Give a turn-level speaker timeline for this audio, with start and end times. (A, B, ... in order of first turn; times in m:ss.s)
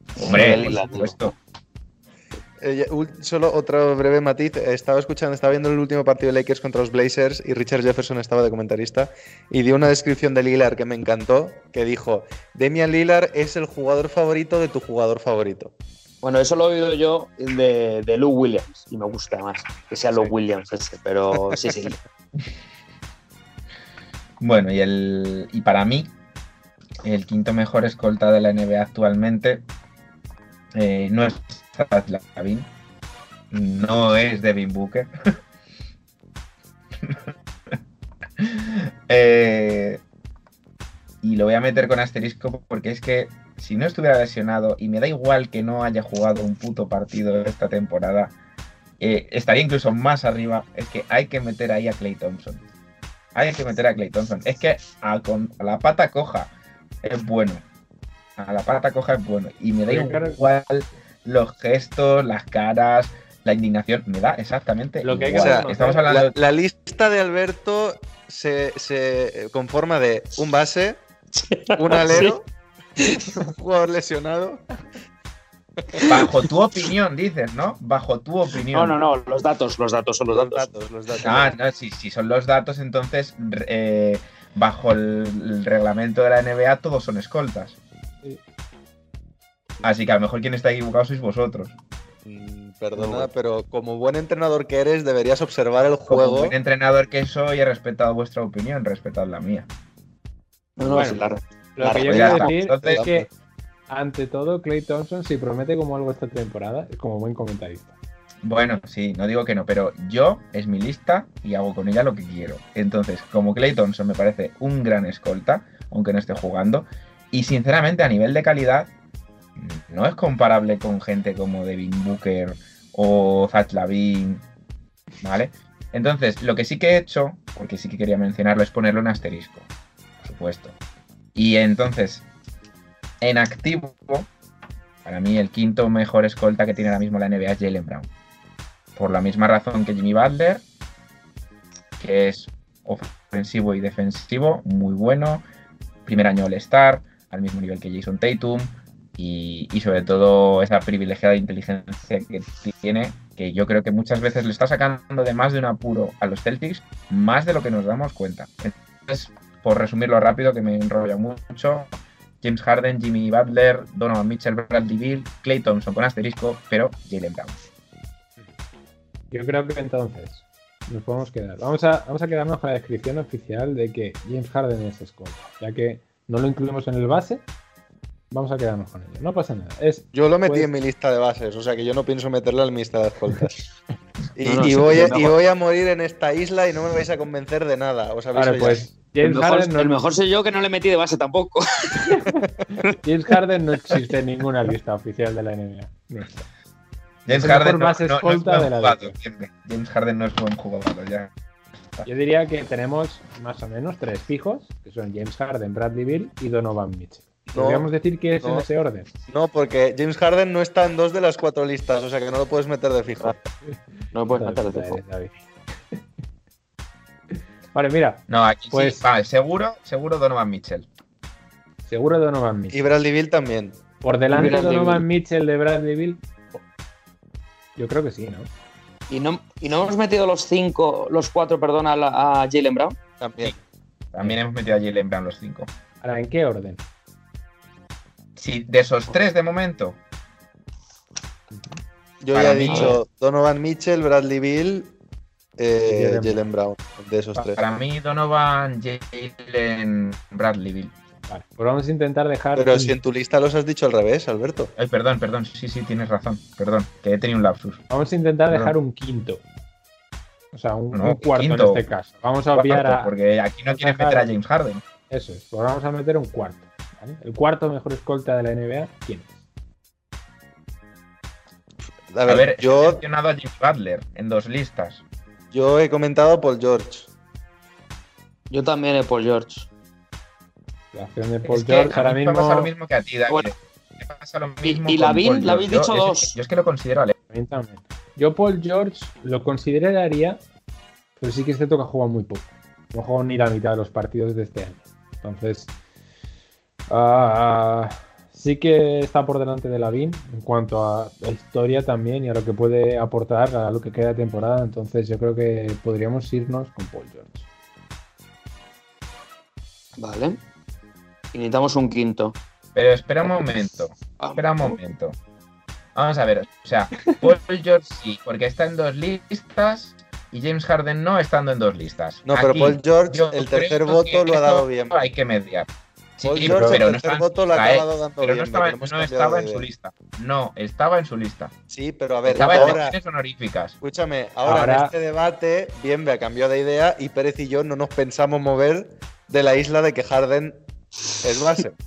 0:00.2-0:01.3 A
0:00.2-0:01.3 B
0:00.2-0:00.8 C
0:02.6-0:15.7 C
0:16.2-0:22.0 A
0:21.5-0:21.7 C
0:24.4-0:26.1 B
0:27.0-0:29.6 B
0:30.7-0:32.7 B
0:33.5-0:35.1 B
0:38.4-0:40.0 B
0:41.2-0:48.3 B
0:49.0-0:52.6 B
0:53.3-0:56.5 B
0:57.0-0:57.6 B
0:58.4-1:06.3 B
0:59.9-1:00.4 D
1:05.0-1:06.2 D
1:05.3-1:11.0 C
1:11.3-1:12.3 A
1:11.8-1:12.5 C
1:13.0-1:13.4 A
1:13.4-1:14.6 C
1:16.1-1:19.0 B
1:18.7-1:20.7 A
1:20.3-1:21.5 C
1:21.2-1:27.8 B
1:29.8-1:31.7 B
1:32.2-1:36.5 C
1:33.0-1:33.3 A
1:36.1-1:39.7 B
1:40.8-1:42.5 A
1:40.8-1:41.2 D
1:41.8-1:43.2 D
1:42.0-1:43.0 B
1:42.8-1:43.3 C
1:43.9-1:47.9 D
1:48.4-1:58.9 B
1:59.6-2:04.4 B
2:05.2-2:09.6 B
2:10.2-2:10.8 B
2:11.3-2:12.2 B
2:13.2-2:14.3 B
2:15.0-2:18.1 B
2:19.0-2:20.6 B
2:22.0-2:25.4 B
2:26.0-2:41.9 B
2:42.4-2:47.7 B
2:49.3-2:57.4 D
2:58.3-3:00.7 D
3:00.1-3:03.5 C
3:04.4-3:08.8 C
3:04.4-3:05.4 A
3:08.3-3:09.9 D
3:09.2-3:12.1 A
3:12.4-3:12.8 C
3:13.0-3:16.4 D
3:17.2-3:21.3 B
3:17.3-3:19.2 D
3:22.0-3:29.1 D
3:27.5-3:28.7 C
3:29.3-3:33.4 C
3:34.1-3:35.0 A
3:34.3-3:35.4 D
3:37.7-3:39.0 D
3:38.3-3:40.9 B
3:41.9-3:42.8 D
3:42.7-3:43.8 C
3:44.0-3:46.6 D
3:44.3-3:45.0 A
3:47.8-3:48.5 D
3:49.1-3:53.0 A
3:53.2-3:53.5 C
3:54.1-3:55.7 B
3:56.0-3:56.8 D
3:58.4-4:00.0 B
4:02.2-4:04.9 C
4:02.3-4:03.0 B
4:02.7-4:03.0 A
4:05.6-4:07.6 C
4:05.8-4:06.4 D
4:07.4-4:10.9 B
4:11.3-4:13.0 D
4:12.5-4:14.7 C
4:14.8-4:17.8 B
4:17.9-4:19.4 D
4:18.5-4:18.7 B
4:20.5-4:23.1 D
4:20.9-4:21.8 B
4:22.5-4:24.8 B
4:23.7-4:24.3 D
4:25.1-4:29.4 D
4:32.1-4:33.0 C
4:32.2-4:35.0 B
4:35.5-4:37.1 C
4:38.5-4:39.7 A
4:40.9-4:42.7 D
4:41.4-4:47.1 B
4:44.6-4:46.4 A
4:47.3-4:50.4 D
4:51.2-4:55.7 D
4:56.9-5:07.4 D
5:10.0-5:10.4 A
5:11.3-5:12.4 A
5:12.7-5:15.2 B
5:14.2-5:14.8 A
5:15.9-5:31.5 B
5:22.2-5:25.0 C
5:26.2-5:29.7 C
5:26.4-5:26.8 D
5:31.7-5:33.0 C
5:32.3-5:33.8 B
5:33.8-5:40.6 C
5:34.4-5:34.9 D
5:41.2-5:41.7 C